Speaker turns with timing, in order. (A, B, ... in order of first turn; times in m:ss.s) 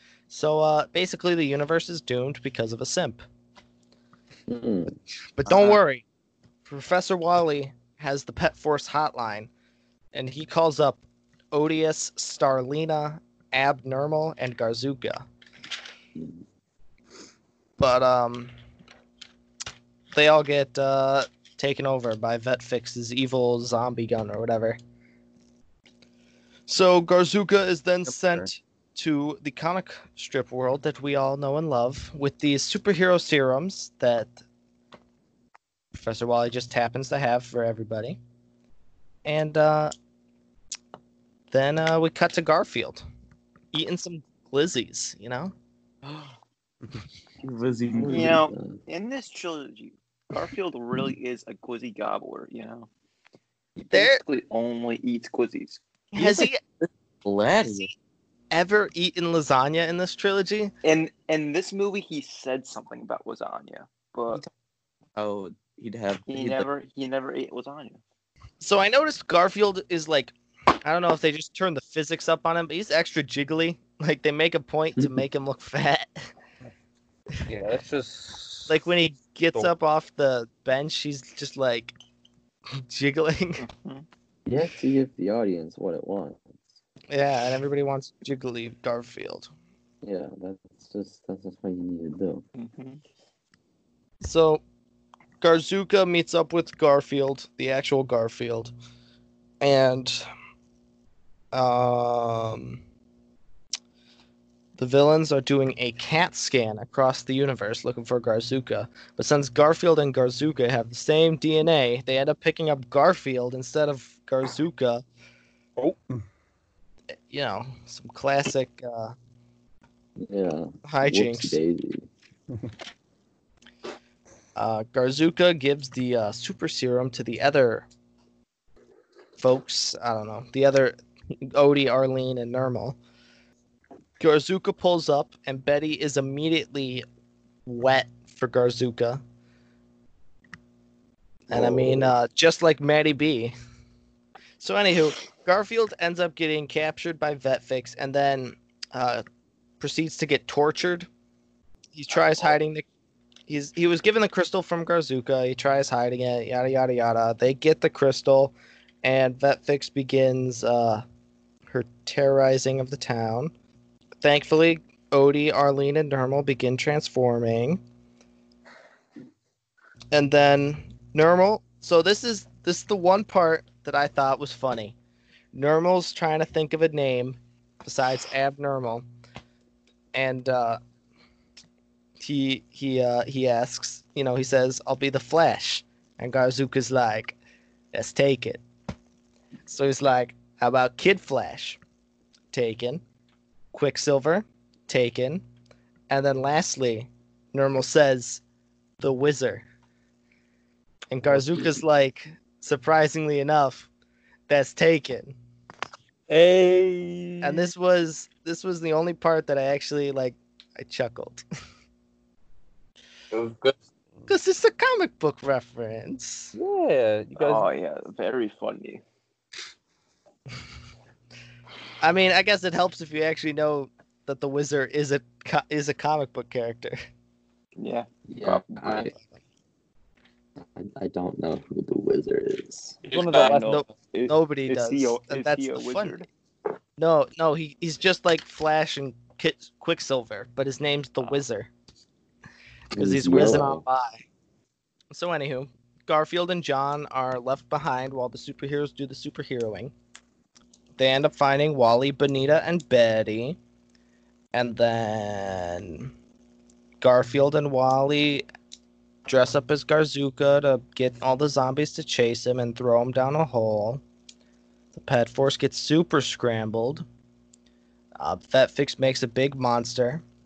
0:00.3-0:03.2 A
0:04.5-0:04.9 B
0:05.4-0:06.0 A
0:06.6-0:09.5 A
0:10.1-0:11.0 A
0:11.5-0:15.2 A
0:17.8-0:18.5 A
0:20.1-0:24.8 A
0:26.7-0:34.4 A
0:35.9-0:38.2 A
0:39.2-0:39.9 A
0:41.5-0:43.0 A
0:43.7-0:45.5 A
0:46.1-0:46.3 C
0:47.4-0:48.8 B
0:48.0-0:52.9 D
0:53.8-0:55.8 D
0:53.9-0:54.2 A
0:56.1-0:56.6 A
0:56.2-0:57.9 C
0:57.5-0:57.8 B
0:58.5-1:00.7 A
1:00.8-1:04.4 D
1:05.2-1:06.7 C
1:06.3-1:08.0 D
1:08.6-1:16.3 A
1:17.5-1:18.7 E
1:18.7-1:21.9 A
1:22.8-1:23.6 A
1:23.6-1:24.1 D
1:24.4-1:26.8 B
1:27.1-1:29.5 A
1:30.0-1:32.4 B
1:32.6-1:33.0 D
1:34.2-1:34.6 A
1:35.4-1:38.7 A
1:39.6-1:40.2 A
1:41.5-1:42.8 A
1:44.8-1:55.0 A
1:55.8-1:56.2 E
1:57.3-1:59.1 A
2:00.2-2:02.1 B
2:00.9-2:01.6 A
2:04.6-2:07.9 A
2:09.4-2:11.0 A
2:11.5-2:13.0 A
2:14.2-2:17.0 A
2:17.6-2:19.2 A
2:21.5-2:22.1 B
2:21.5-2:23.5 A
2:24.6-2:29.2 A
2:29.8-2:31.1 A
2:31.9-2:32.8 A
2:33.5-2:41.0 A
2:41.7-2:43.5 A
2:44.2-2:47.8 A
2:50.1-2:55.0 A
2:55.5-2:59.0 A
3:00.1-3:00.8 A
3:02.2-3:07.4 A
3:07.9-3:08.6 A
3:09.7-3:11.8 A
3:12.5-3:13.0 A
3:13.7-3:15.4 A
3:16.1-3:18.4 A
3:19.0-3:19.6 A
3:21.1-3:23.9 A
3:24.5-3:25.4 A
3:26.3-3:27.7 E
3:27.4-3:31.4 A
3:33.3-3:33.8 E
3:34.3-3:36.5 A
3:36.5-3:37.7 E
3:37.4-3:39.0 D
3:42.0-3:47.0 A
3:47.8-3:49.1 D
3:48.3-3:49.1 B
3:50.8-3:53.0 B
3:53.0-3:56.3 D
3:53.1-3:53.9 E
3:53.5-3:56.2 A
3:57.0-4:01.7 A
4:02.9-4:03.8 B
4:03.0-4:04.2 A
4:05.1-4:09.9 A
4:11.0-4:13.6 A
4:14.5-4:16.1 A
4:17.0-4:18.4 A
4:19.2-4:24.0 A
4:24.9-4:27.0 A
4:28.2-4:30.2 A